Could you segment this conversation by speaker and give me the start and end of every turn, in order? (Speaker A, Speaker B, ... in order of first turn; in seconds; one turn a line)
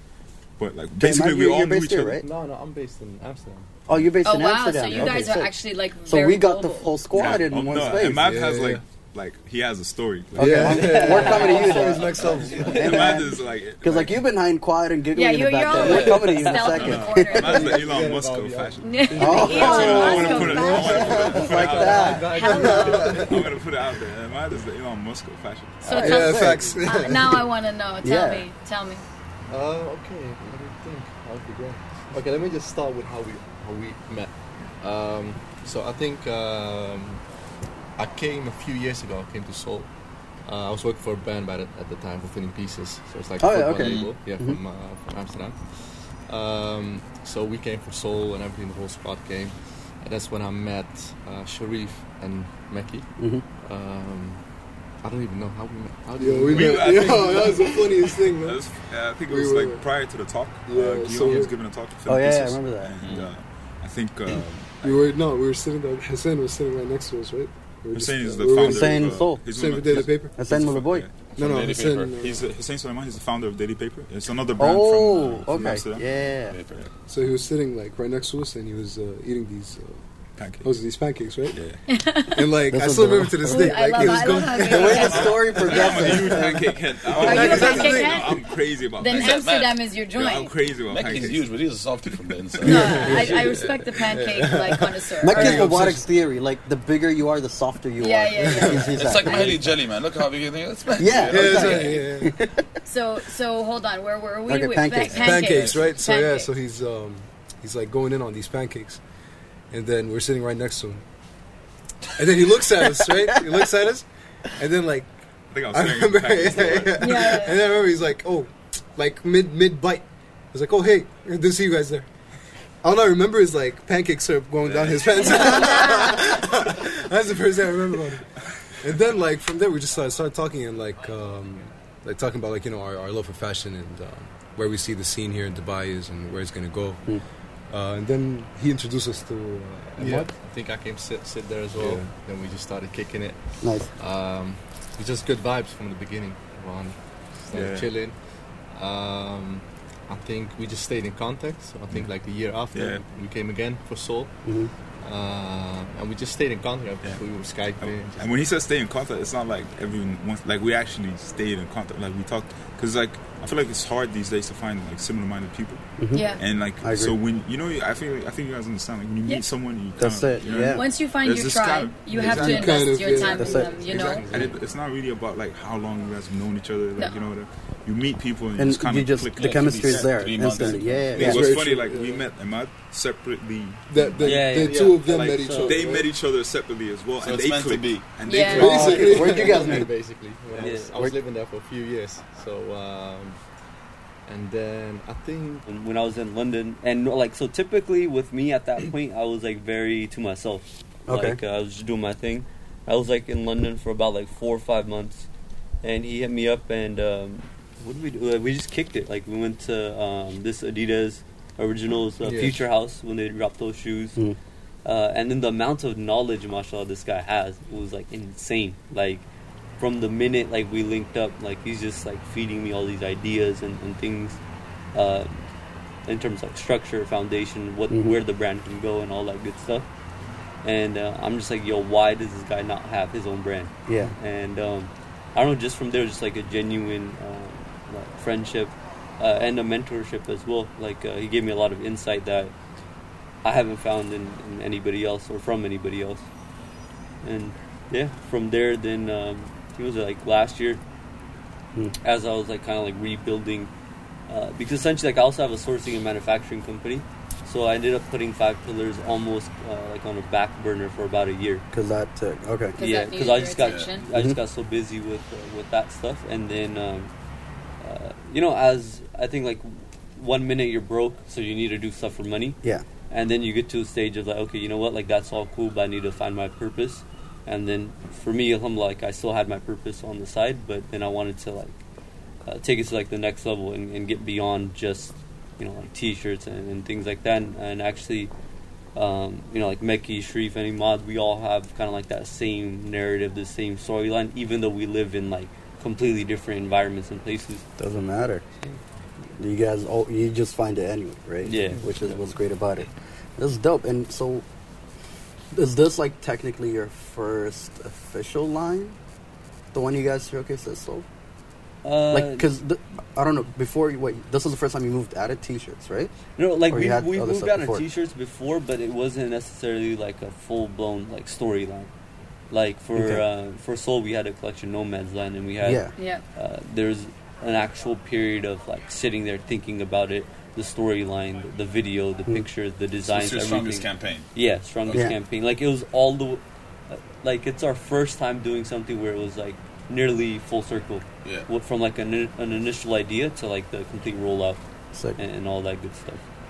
Speaker A: 0.6-2.2
Speaker B: 1.0-2.2
Speaker C: 2.1-3.7
Speaker B: 3.9-8.3
Speaker D: 4.2-7.0
Speaker A: 7.1-11.2
Speaker E: 7.8-8.8
Speaker E: 10.3-13.0
Speaker B: 10.3-17.6
Speaker F: 11.1-11.7
Speaker D: 11.2-12.0
Speaker F: 12.7-13.0
Speaker A: 12.7-14.2
Speaker D: 15.1-17.8
Speaker F: 15.8-16.7
Speaker A: 16.7-22.2
Speaker E: 17.4-21.4
Speaker C: 17.7-18.2
Speaker D: 18.8-23.4
Speaker C: 19.1-19.5
Speaker B: 19.2-22.3
Speaker C: 21.1-23.4
Speaker E: 22.4-23.4
Speaker A: 23.1-25.9
Speaker B: 25.8-26.8
Speaker D: 25.8-29.0
Speaker E: 25.9-27.5
Speaker B: 28.0-28.5
Speaker C: 29.5-37.2
Speaker C: 38.0-39.9
Speaker C: 40.4-54.4
Speaker B: 43.4-44.6
Speaker G: 43.8-44.1
Speaker B: 53.2-53.4
Speaker C: 55.0-57.3
Speaker E: 56.2-58.6
Speaker A: 56.5-65.0
Speaker E: 59.2-59.9
Speaker E: 60.6-61.6
Speaker B: 62.0-62.9
Speaker G: 63.0-63.3
Speaker E: 64.8-70.4
Speaker A: 67.9-71.3
Speaker B: 68.5-69.5
Speaker B: 70.0-71.1
Speaker G: 71.4-72.2
Speaker E: 71.4-72.5
Speaker A: 72.2-76.9
Speaker B: 74.6-76.5
Speaker G: 76.5-76.9
Speaker E: 77.1-80.0
Speaker A: 80.4-80.7
Speaker E: 80.6-81.6
Speaker A: 81.5-81.8
Speaker D: 81.9-82.5
Speaker E: 82.3-88.4
Speaker B: 82.7-86.6
Speaker D: 83.5-90.5
Speaker A: 84.8-89.5
Speaker G: 89.1-89.9
Speaker A: 90.1-91.5
Speaker G: 90.9-93.4
Speaker E: 92.6-96.1
Speaker D: 92.6-95.8
Speaker B: 95.2-99.5
Speaker D: 98.0-99.6
Speaker E: 98.3-99.0
Speaker G: 98.9-102.0
Speaker B: 101.0-102.6
Speaker E: 101.3-102.4
Speaker D: 102.8-106.5
Speaker B: 104.5-105.4
Speaker E: 105.1-109.0
Speaker A: 105.4-105.9
Speaker E: 109.7-111.0
Speaker E: 112.2-114.0
Speaker E: 114.6-115.1
Speaker A: 115.5-117.3
Speaker E: 115.7-122.1
Speaker D: 117.0-117.7
Speaker E: 122.8-137.2
Speaker G: 124.7-125.9
Speaker D: 125.1-126.3
Speaker E: 137.7-140.3
Speaker C: 140.0-148.2
Speaker E: 141.8-142.1
Speaker B: 143.6-143.9
Speaker A: 147.5-147.9
Speaker C: 148.7-154.4
Speaker A: 152.7-153.0
Speaker B: 154.4-154.7
Speaker C: 155.0-158.3
Speaker A: 157.8-173.1
Speaker B: 166.0-167.2
Speaker D: 166.1-166.5
Speaker B: 170.0-170.8
Speaker D: 170.6-174.5
Speaker E: 172.1-173.9
Speaker B: 173.4-173.7
Speaker A: 173.8-184.5
Speaker C: 174.0-174.6
Speaker B: 178.6-181.6
Speaker G: 179.3-181.3
Speaker E: 181.2-182.2
Speaker E: 183.9-186.1
Speaker F: 184.2-185.8
Speaker C: 184.6-185.4
Speaker A: 185.6-189.2
Speaker G: 187.2-188.1
Speaker D: 188.2-189.0
Speaker E: 188.5-189.8
Speaker B: 188.6-190.1
Speaker C: 188.6-193.4
Speaker F: 190.6-191.0
Speaker B: 190.9-191.2
Speaker C: 194.2-195.7
Speaker F: 195.7-205.3
Speaker B: 201.1-201.4
Speaker F: 205.8-214.2
Speaker C: 212.2-212.6
Speaker F: 214.8-219.2
Speaker F: 219.8-224.4
Speaker F: 224.9-225.5
Speaker F: 226.1-229.9
Speaker B: 227.9-228.2
Speaker F: 230.6-242.5
Speaker B: 233.8-234.1
Speaker F: 243.4-246.2
Speaker F: 247.2-250.8
Speaker F: 252.0-253.7
Speaker F: 254.3-261.6
Speaker B: 261.7-262.8
Speaker D: 262.8-264.1
Speaker F: 262.8-267.1
Speaker G: 263.6-263.9
Speaker F: 267.8-272.6
Speaker F: 273.1-281.8
Speaker F: 282.4-288.3
Speaker F: 288.9-297.6
Speaker B: 297.8-298.4
Speaker B: 299.4-304.4
Speaker F: 301.4-301.9
Speaker C: 301.5-302.2
Speaker B: 305.5-309.0
Speaker B: 309.7-311.1
Speaker F: 311.8-312.5
Speaker B: 312.1-316.1
Speaker F: 316.4-321.9
Speaker B: 316.7-317.8
Speaker F: 322.5-344.6
Speaker B: 322.9-323.2
Speaker B: 325.6-325.9
Speaker D: 326.0-326.2
Speaker G: 333.1-334.3
Speaker G: 334.8-335.1
Speaker F: 345.2-346.2